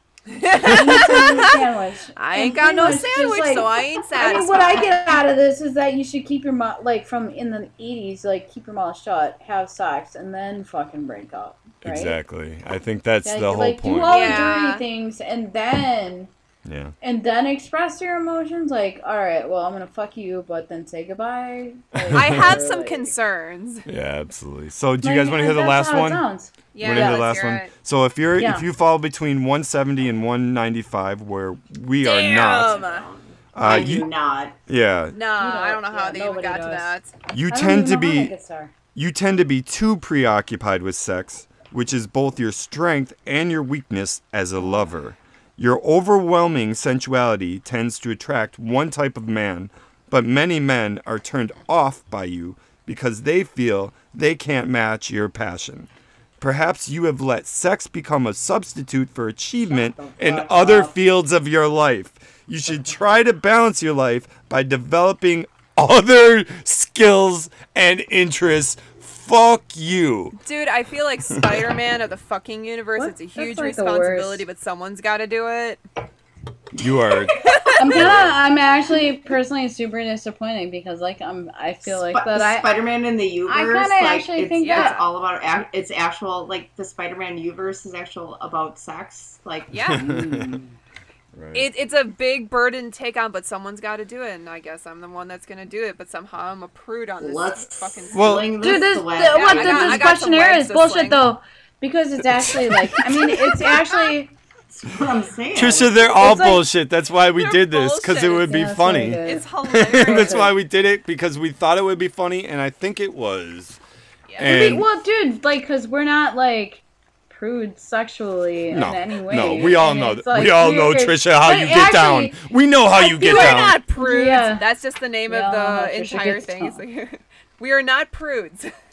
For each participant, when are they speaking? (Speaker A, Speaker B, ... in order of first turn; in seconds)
Speaker A: 0.3-1.5, 2.1-5.2, 14.0-14.8, 22.1-23.9, 26.7-27.7, 32.0-33.0, 35.1-37.1, 70.4-75.8, 77.3-78.2, 84.6-85.0, 89.7-90.0, 91.5-98.5, 99.2-101.3, 107.3-108.5, 109.2-110.4, 122.9-128.7
Speaker B: 0.6-12.2, 13.2-16.3, 17.0-23.1, 25.0-27.4, 28.4-28.6, 35.4-37.0, 37.5-38.7, 60.5-60.7, 73.0-74.5, 77.8-82.7, 83.4-85.0, 89.9-90.7, 98.6-104.3, 106.2-106.7, 108.4-110.5, 114.4-122.4, 123.2-124.7, 125.3-126.8
Speaker C: 11.8-14.4, 16.6-16.9, 21.9-22.5, 23.9-26.2, 26.8-32.9, 33.5-34.1, 34.7-35.1, 37.3-38.3, 38.9-55.9, 56.4-70.4, 76.8-78.4, 89.8-90.6, 91.3-91.7, 98.1-98.5, 102.7-103.6, 105.5-113.8, 114.4-114.9, 118.7-123.8
Speaker D: 32.3-34.5, 59.7-60.9, 81.8-89.7, 97.2-100.1, 104.7-106.0